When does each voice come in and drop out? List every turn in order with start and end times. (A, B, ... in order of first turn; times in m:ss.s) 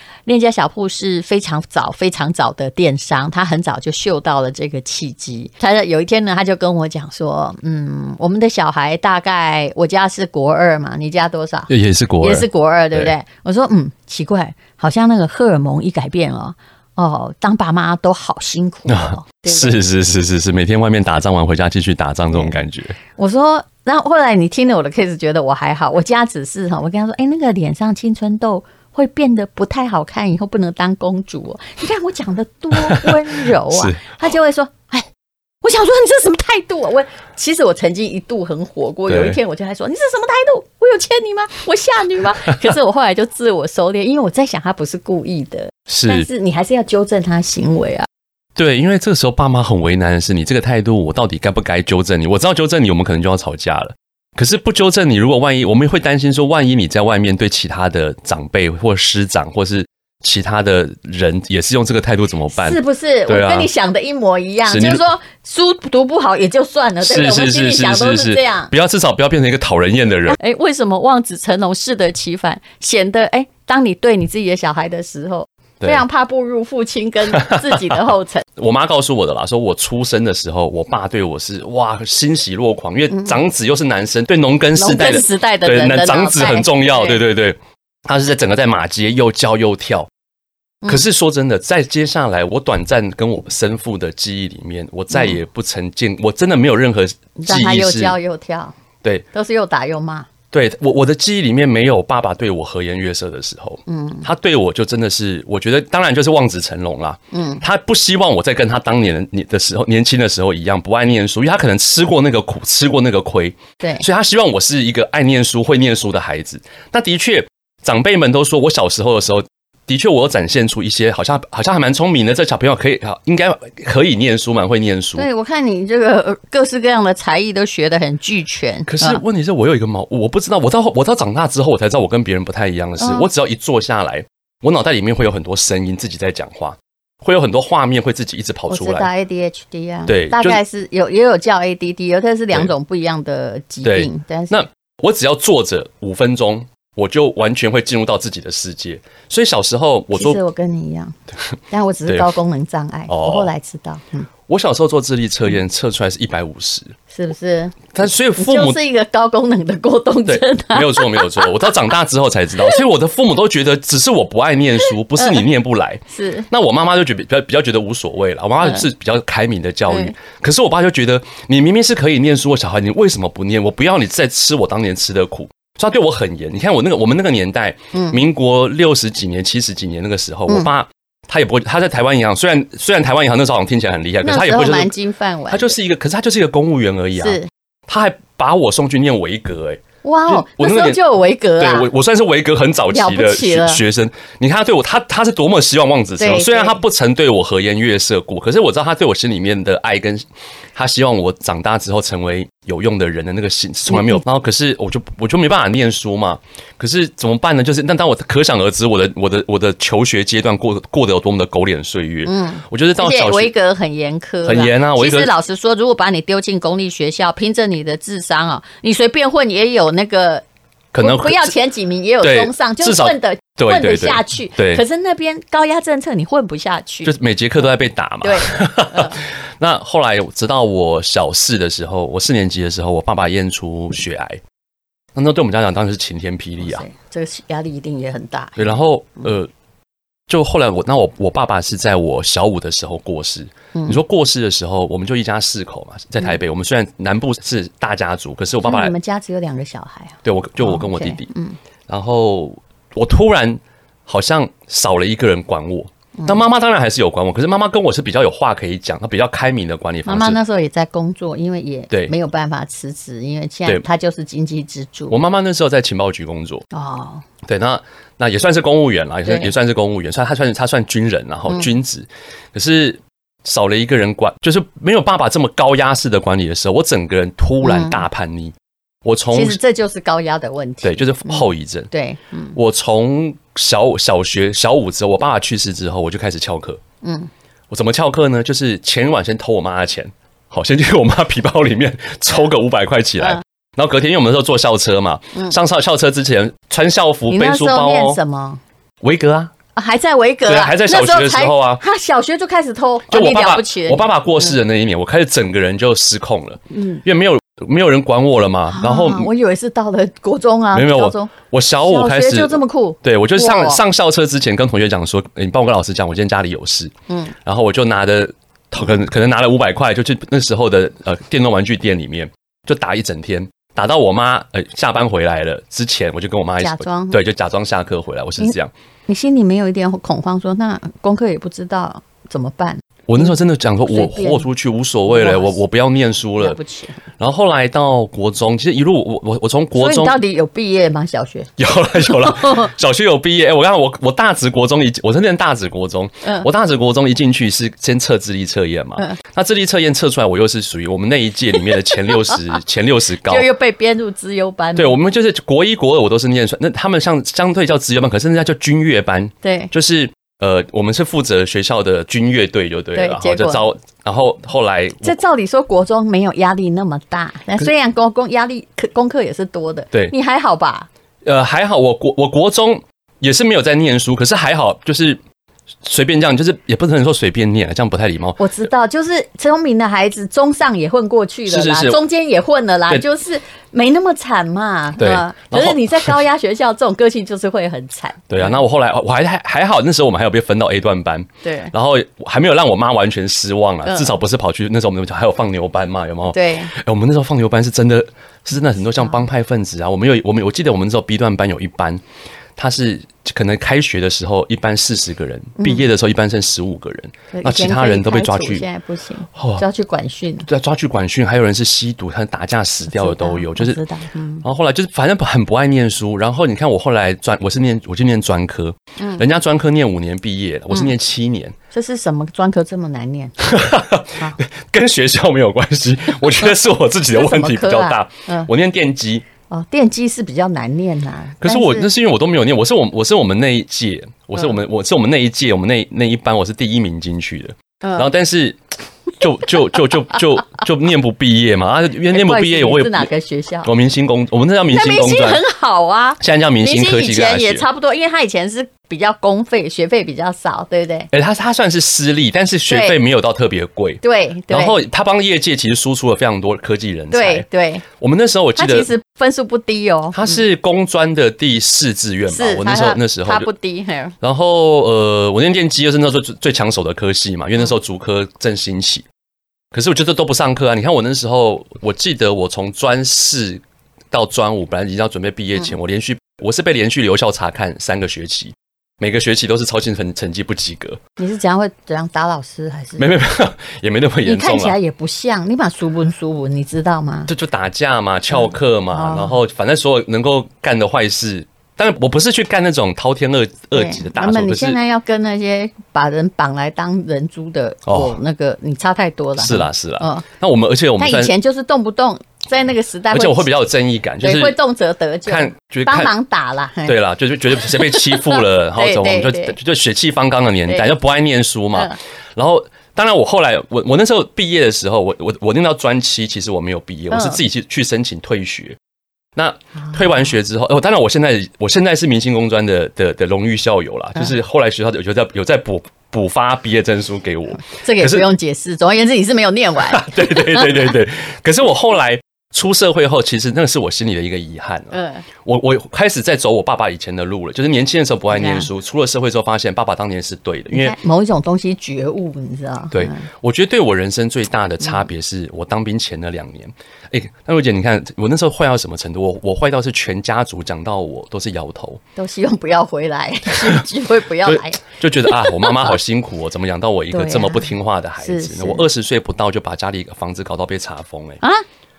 0:00.3-0:19.8 A
0:11.7-0:13.2 B
0:18.9-0:23.0 B
0:23.2-0:35.1 A
0:32.7-0:34.1 B
0:35.6-0:48.1 A
0:39.1-0:39.4 B
0:42.5-0:42.7 B
0:45.9-0:46.3 B
0:48.6-1:03.7 B
1:02.6-1:08.7 A
1:04.7-1:05.0 B
1:07.0-1:10.4 B
1:10.3-1:18.4 A
1:17.3-1:18.0 B
1:18.6-1:30.1 B
1:23.1-1:23.4 A
1:24.8-1:27.2 A
1:30.9-1:38.2 B
1:35.1-1:35.4 A
1:37.4-1:38.8 A
1:39.3-1:40.3 A
1:40.5-2:05.3 B
1:43.9-1:44.3 A
1:47.3-1:47.6 A
1:53.8-1:54.1 A
2:05.2-2:09.2 A
2:08.9-2:19.1 B
2:13.0-2:13.3 A
2:18.7-2:24.6 A
2:20.1-2:20.6 B
2:23.8-2:30.4 B
2:30.1-2:31.2 A
2:31.7-2:34.3 A
2:32.1-2:32.3 B
2:33.1-2:33.5 B
2:34.5-2:36.9 B
2:37.1-2:41.8 A
2:37.9-2:38.8 B
2:40.3-3:04.9 B
2:44.9-2:45.5 A
2:46.1-2:46.5 A
2:48.6-2:48.9 A
2:49.9-2:50.1 A
2:57.9-2:58.2 A
3:04.2-3:05.8 A
3:05.5-3:11.0 B
3:07.2-3:07.5 A
3:10.0-3:11.9 A
3:11.6-3:33.6 B
3:12.9-3:13.8 A
3:16.2-3:16.8 A
3:23.9-3:24.2 A
3:32.2-3:40.4 A
3:34.4-3:35.3 B
3:40.9-3:41.6 B
3:41.0-3:47.2 A
3:42.2-3:44.8 B
3:47.0-3:54.4 B
3:48.2-3:49.2 A
3:55.2-3:56.8 B
3:56.6-3:58.8 A
3:58.6-3:59.5 B
4:00.3-4:09.0 B
4:03.8-4:04.0 A
4:08.6-4:11.6 A
4:10.2-4:11.3 B
4:11.9-4:20.4 B
4:16.2-4:16.4 A
4:20.0-4:25.2 A
4:25.1-4:26.6 B
4:26.7-4:27.2 A
4:27.4-4:39.6 B
4:29.2-4:29.5 A
4:37.6-4:38.1 A
4:39.3-4:42.6 A
4:40.8-4:41.9 B
4:42.6-4:46.8 B
4:47.0-4:47.3 A
4:47.7-4:58.2 B
4:57.3-4:58.6 A
4:59.0-4:59.5 B
4:59.8-5:04.6 A
5:00.4-5:01.8 B
5:03.1-5:09.3 B
5:06.7-5:07.0 A
5:08.7-5:11.3 A
5:10.7-5:16.9 B
5:11.8-5:13.8 A
5:17.1-5:17.3 A
5:17.4-5:28.7 B
5:26.6-5:27.2 A
5:29.1-5:34.5 A
5:33.1-5:36.6 B
5:35.1-5:35.6 A
5:36.4-5:37.0 A
5:37.2-5:40.2 B
5:39.8-5:42.7 A
5:41.6-5:53.5 B
5:46.2-5:46.5 A
5:51.6-5:52.4 A
5:53.2-5:55.0 A
5:54.8-6:05.2 B
5:59.4-5:59.7 A
6:02.9-6:03.6 A
6:05.0-6:10.9 A
6:11.2-6:15.2 B
6:15.8-6:18.5 B
6:18.4-6:28.6 A
6:21.5-6:22.0 B
6:25.0-6:26.2 B
6:28.3-6:42.0 B
6:31.4-6:31.7 A
6:33.8-6:34.2 A
6:36.3-6:36.7 A
6:42.6-6:48.7 B
6:45.6-6:45.9 A
6:47.3-6:50.5 A
6:49.4-6:49.6 B
6:50.4-6:53.8 B
6:52.9-6:54.4 A
6:54.4-7:01.6 B
6:59.0-6:59.2 A
7:01.7-7:03.5 A
7:03.4-7:09.2 B
7:06.4-7:08.5 A
7:09.5-7:11.9 A
7:11.4-7:18.6 B
7:17.8-7:18.1 A
7:19.2-7:23.1 B
7:22.1-7:23.7 A
7:23.6-7:25.4 B
7:24.7-7:31.1 A
7:26.2-7:27.7 B
7:31.1-7:37.5 B
7:32.7-7:33.0 A
7:34.0-7:34.8 A
7:37.1-7:37.9 A
7:38.0-7:38.9 B
7:38.6-7:40.4 A
7:40.1-7:43.5 B
7:42.3-7:44.2 A
7:44.2-7:49.1 B
7:49.7-8:01.0 B
8:01.2-8:03.1 A
8:03.0-8:04.8 B
8:04.2-8:07.3 A
8:07.3-8:14.8 B
8:08.3-8:09.4 A
8:13.7-8:20.3 A
8:17.9-8:18.2 B
8:19.4-8:21.3 B
8:21.0-8:23.5 A
8:23.1-8:24.6 B
8:24.2-8:27.0 A
8:25.2-8:26.1 B
8:26.8-8:38.8 B
8:27.6-8:29.6 A
8:30.7-8:30.9 A
8:31.7-8:32.0 A
8:37.1-8:37.4 A
8:39.4-8:48.3 B
8:47.7-8:51.0 A
8:49.8-9:01.0 B
8:54.9-8:55.2 A
8:58.3-8:58.7 A
9:00.7-9:03.3 A
9:02.9-9:12.0 B
9:12.2-9:16.0 A
9:13.5-9:13.8 B
9:14.4-9:21.4 B
9:17.1-9:18.9 A